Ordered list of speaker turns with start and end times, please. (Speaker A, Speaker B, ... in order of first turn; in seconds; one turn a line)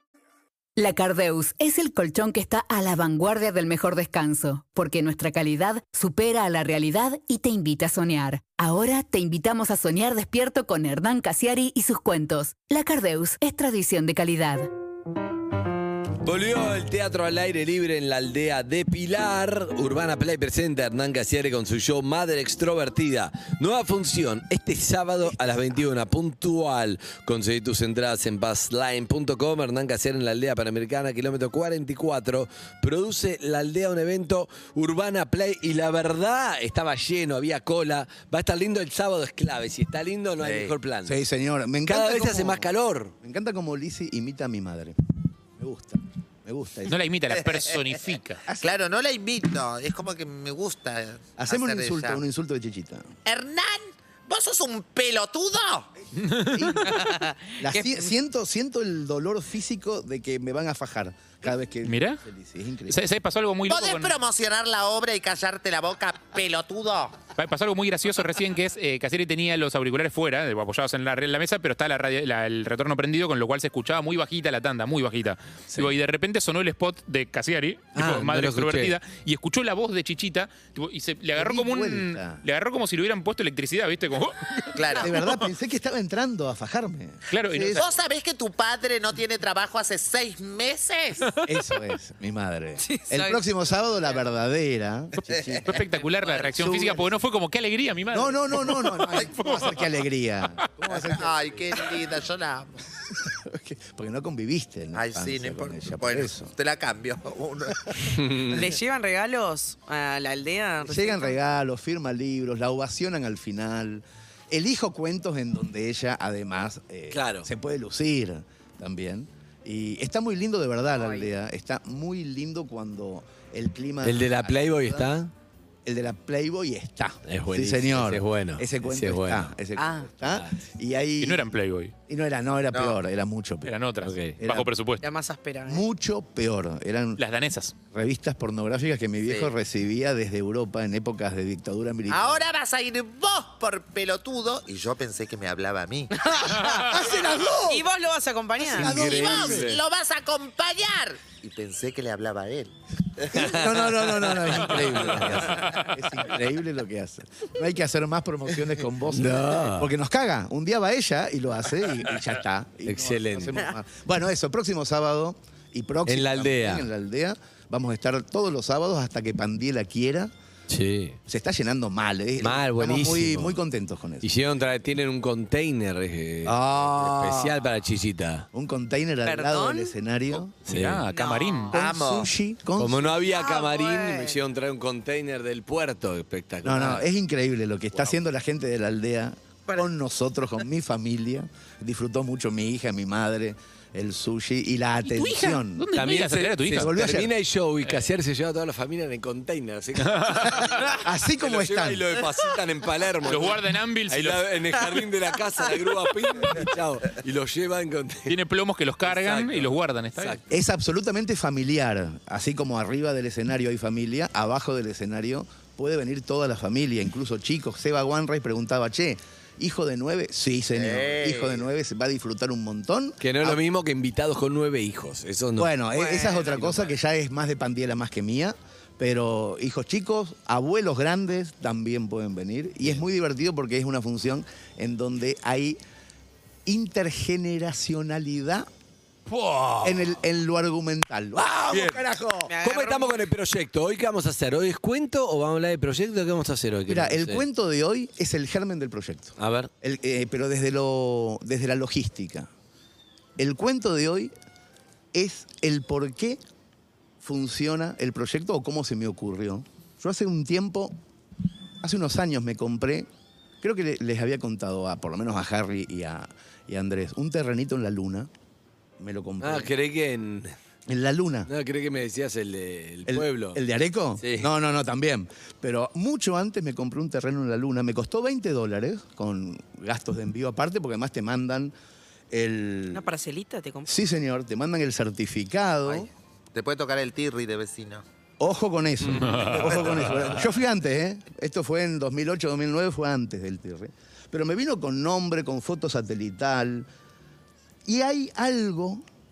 Speaker A: 0.8-14.7
Speaker B: 16.2-41.2
Speaker C: 40.4-40.8
Speaker D: 41.0-42.7
Speaker B: 41.9-43.1
Speaker D: 43.2-45.0
Speaker D: 45.6-47.0
Speaker E: 46.9-48.4
Speaker C: 47.3-47.6
Speaker C: 48.5-52.2
Speaker D: 51.4-53.1
Speaker C: 53.3-55.9
Speaker E: 56.2-57.0
Speaker D: 56.4-63.0
Speaker F: 56.9-58.0
Speaker E: 61.9-62.2
Speaker E: 62.9-64.1
Speaker C: 63.7-67.2
Speaker E: 67.4-85.1
Speaker B: 78.0-79.0
Speaker D: 81.3-82.4
Speaker C: 84.7-85.5
Speaker D: 85.0-87.9
Speaker E: 87.3-87.9
Speaker C: 87.7-91.3
Speaker D: 91.4-95.8
Speaker F: 92.8-93.5
Speaker C: 95.5-96.5
Speaker E: 95.7-99.8
Speaker D: 96.5-97.2
Speaker D: 98.1-101.7
Speaker C: 100.9-102.8
Speaker D: 103.2-106.5
Speaker C: 104.9-108.6
Speaker B: 108.1-108.6
Speaker F: 108.5-111.5
Speaker D: 110.8-125.1
Speaker B: 117.1-117.5
Speaker B: 124.0-125.3
Speaker D: 125.9-131.5
Speaker B: 127.3-129.5
Speaker B: 130.3-130.6
Speaker E: 131.2-131.9
Speaker D: 132.1-133.7
Speaker C: 132.7-133.0
Speaker E: 133.7-135.0
Speaker B: 134.0-134.4
Speaker D: 134.4-134.7
Speaker F: 135.0-135.9
Speaker D: 135.7-137.2
Speaker E: 137.2-137.8
Speaker D: 137.9-142.4
Speaker C: 139.3-139.5
Speaker C: 142.1-146.3
Speaker F: 146.2-147.0
Speaker D: 146.8-147.9
Speaker F: 147.6-148.9
Speaker D: 148.6-149.7
Speaker B: 148.8-149.8
Speaker C: 148.9-153.6
Speaker D: 153.3-170.3
Speaker B: 153.3-153.9
Speaker C: 154.8-155.2
Speaker B: 154.9-155.4
Speaker E: 155.6-156.0
Speaker B: 159.1-159.9
Speaker B: 162.9-163.7
Speaker B: 166.1-166.9
Speaker B: 170.7-171.2
Speaker D: 171.3-174.3
Speaker B: 172.4-173.6
Speaker B: 174.2-178.5
Speaker D: 176.4-177.6
Speaker D: 178.5-180.6
Speaker F: 179.2-179.9
Speaker B: 180.7-181.0
Speaker E: 180.7-181.8
Speaker F: 181.1-181.8
Speaker C: 181.7-182.3
Speaker D: 181.7-183.1
Speaker B: 182.8-187.1
Speaker F: 183.2-184.4
Speaker D: 186.6-196.0
Speaker E: 195.1-196.9
Speaker B: 195.9-208.3
Speaker D: 196.7-197.3
Speaker E: 200.0-200.9
Speaker D: 201.0-202.1
Speaker E: 203.2-204.8
Speaker E: 208.3-210.4
Speaker B: 209.0-210.4
Speaker D: 210.5-223.6
Speaker C: 220.8-221.7
Speaker B: 223.2-225.7
Speaker D: 225.6-235.8
Speaker F: 225.9-226.7
Speaker B: 226.5-226.8
Speaker D: 236.7-238.7
Speaker B: 239.3-240.2
Speaker D: 239.8-242.5
Speaker B: 241.7-242.0
Speaker F: 242.5-243.2
Speaker B: 242.6-247.4
Speaker D: 246.9-252.5
Speaker B: 249.4-249.7
Speaker D: 253.4-254.3
Speaker D: 255.1-256.4
Speaker D: 257.2-260.9
Speaker D: 261.8-263.1
Speaker D: 263.6-268.3
Speaker D: 269.0-269.7
Speaker B: 269.4-270.6
Speaker D: 270.9-271.5
Speaker B: 271.5-273.6
Speaker D: 273.1-281.7
Speaker B: 274.2-274.5
Speaker D: 282.3-283.1
Speaker F: 282.9-283.9
Speaker D: 283.9-286.1
Speaker C: 285.9-288.0
Speaker D: 288.4-296.9
Speaker E: 289.2-290.0
Speaker D: 297.9-299.0